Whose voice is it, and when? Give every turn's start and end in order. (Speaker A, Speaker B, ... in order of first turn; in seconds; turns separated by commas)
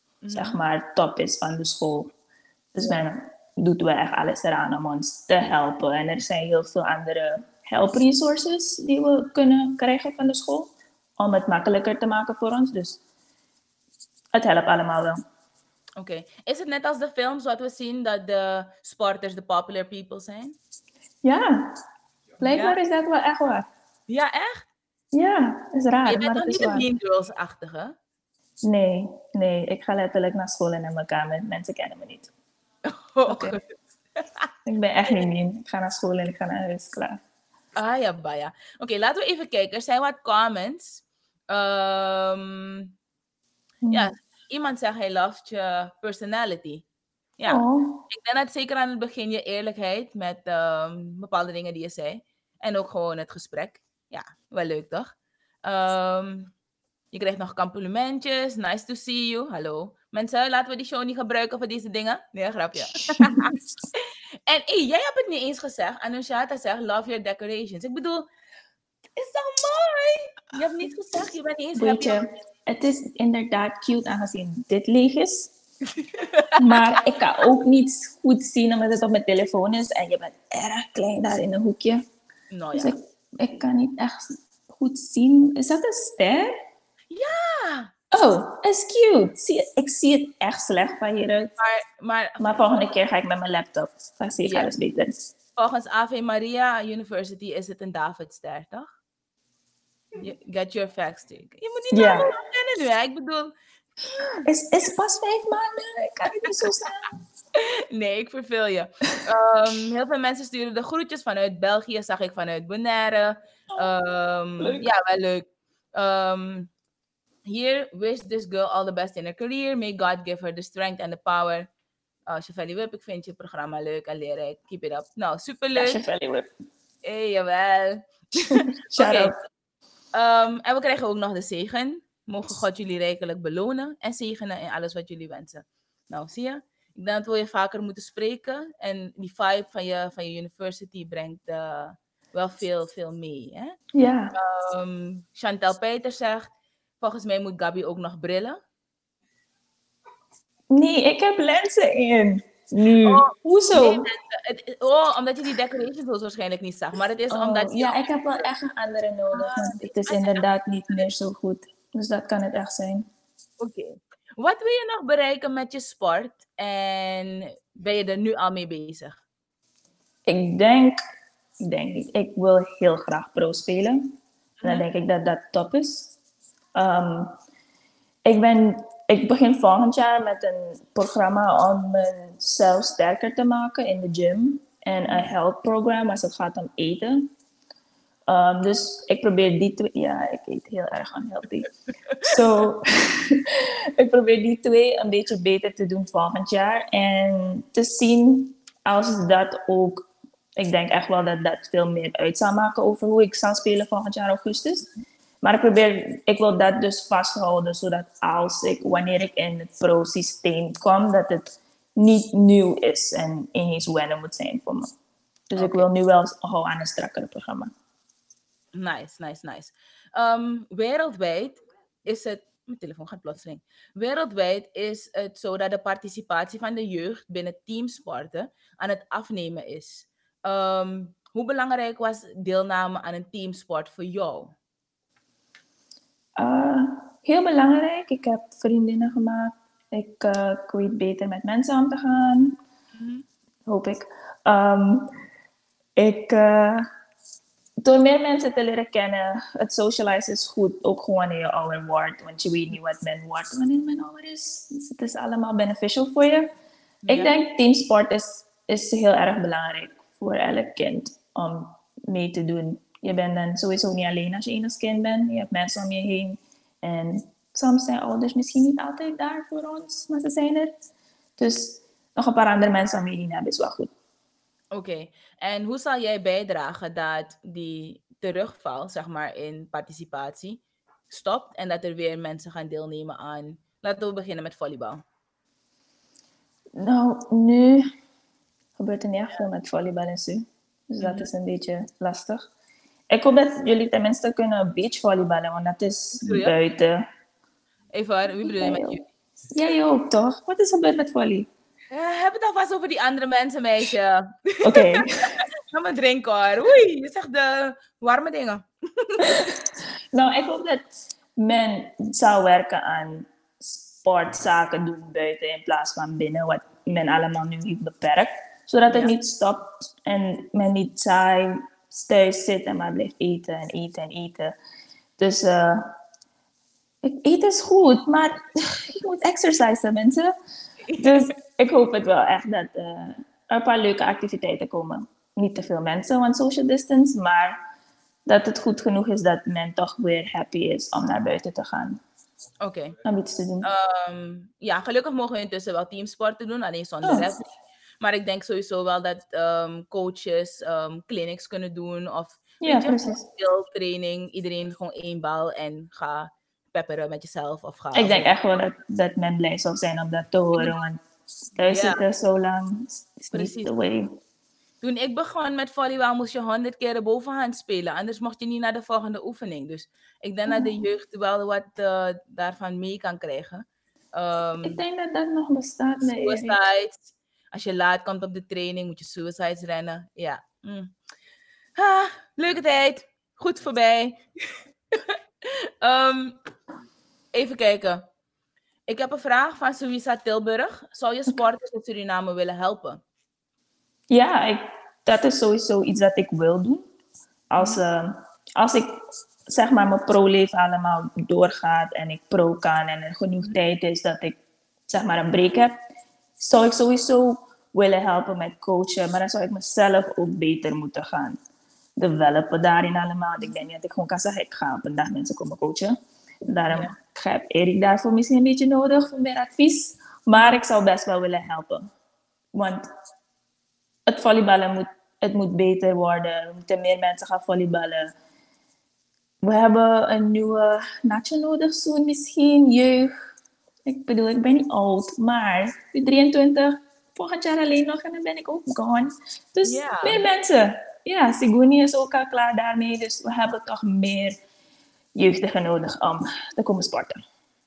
Speaker A: 0.2-0.6, Speaker B: 0.3-2.1, Speaker B: 2.7-13.0, Speaker B: 14.3-15.2, Speaker A: 16.0-20.6, Speaker B: 21.2-21.8, Speaker B: 22.4-23.7, Speaker A: 22.5-22.8, Speaker A: 24.1-24.7, Speaker B: 25.1-26.9, Speaker A: 26.1-28.0, Speaker B: 28.6-32.3, Speaker A: 32.9-33.6, Speaker B: 33.3-33.6, Speaker A: 34.2-34.5, Speaker B: 34.6-37.2, Speaker A: 37.8-42.9, Speaker B: 43.8-44.1, Speaker A: 43.9-46.8, Speaker A: 47.4-55.1, Speaker B: 47.5-48.1, Speaker A: 55.6-56.5, Speaker A: 57.1-68.3, Speaker B: 63.2-63.5, Speaker A: 69.2-72.2, Speaker B: 71.8-75.5, Speaker A: 76.0-76.7, Speaker B: 76.6-82.0, Speaker A: 82.5-83.0, Speaker B: 82.8-86.6, Speaker A: 87.1-87.9, Speaker B: 88.1-91.5, Speaker A: 91.6-92.9, Speaker B: 92.4-95.1, Speaker A: 94.4-94.7, Speaker A: 95.6-98.9, Speaker A: 100.2-103.5, Speaker B: 101.9-102.3, Speaker B: 104.5-107.1, Speaker A: 107.5-116.7, Speaker A: 117.5-121.7, Speaker A: 122.3-126.0, Speaker B: 125.8-126.5, Speaker A: 127.0-129.4, Speaker B: 128.5-129.4, Speaker A: 130.2-143.8, Speaker B: 143.9-144.3, Speaker A: 144.3-146.5, Speaker A: 147.0-148.6, Speaker B: 150.7-154.1, Speaker A: 153.0-158.5, Speaker B: 157.3-163.1, Speaker A: 159.3-160.4, Speaker A: 163.6-169.2, Speaker B: 170.3-171.0, Speaker B: 171.6-176.1, Speaker A: 174.6-174.9, Speaker B: 176.8-177.4, Speaker B: 178.2-187.3, Speaker B: 188.3-191.7, Speaker B: 192.2-204.9, Speaker B: 205.4-214.9, Speaker B: 215.5-217.7, Speaker A: 215.6-215.9, Speaker A: 218.8-234.5, Speaker B: 236.4-242.6, Speaker A: 243.0-243.2, Speaker B: 243.7-245.1, Speaker B: 246.0-246.9, Speaker B: 247.8-256.5, Speaker A: 257.1-257.3, Speaker B: 257.1-270.7, Speaker B: 271.4-273.9, Speaker A: 274.7-280.6, Speaker A: 281.1-285.0, Speaker B: 286.8-287.9, Speaker B: 288.8-292.5, Speaker A: 291.0-291.3, Speaker B: 293.1-297.0, Speaker A: 296.1-296.6, Speaker A: 297.9-299.1, Speaker B: 298.4-299.0, Speaker B: 299.5-301.5, Speaker A: 301.9-309.5, Speaker B: 304.6-305.3, Speaker B: 309.2-309.6, Speaker B: 310.1-324.6, Speaker A: 318.9-319.1, Speaker B: 325.2-325.9, Speaker B: 327.0-330.3, Speaker A: 330.9-331.3, Speaker B: 331.0-337.6, Speaker B: 338.3-342.0, Speaker A: 342.6-343.0, Speaker B: 343.0-343.7, Speaker A: 343.6-347.5, Speaker A: 348.0-358.3, Speaker B: 352.6-353.2, Speaker B: 357.9-361.0, Speaker B: 361.6-364.2, Speaker A: 361.7-362.0, Speaker A: 363.3-363.7, Speaker A: 364.8-374.8, Speaker B: 370.5-370.7, Speaker B: 374.6-376.6, Speaker A: 376.2-380.9, Speaker A: 381.8-384.2, Speaker A: 384.9-386.4, Speaker A: 387.3-388.1, Speaker A: 388.9-393.0, Speaker B: 394.1-396.9, Speaker B: 397.5-405.8, Speaker B: 406.4-411.4, Speaker B: 412.0-416.0, Speaker B: 416.5-421.9, Speaker A: 416.7-416.9, Speaker B: 422.6-422.9, Speaker B: 424.1-428.1, Speaker B: 429.4-433.1, Speaker B: 433.9-444.4, Speaker A: 439.6-440.2, Speaker B: 445.2-447.2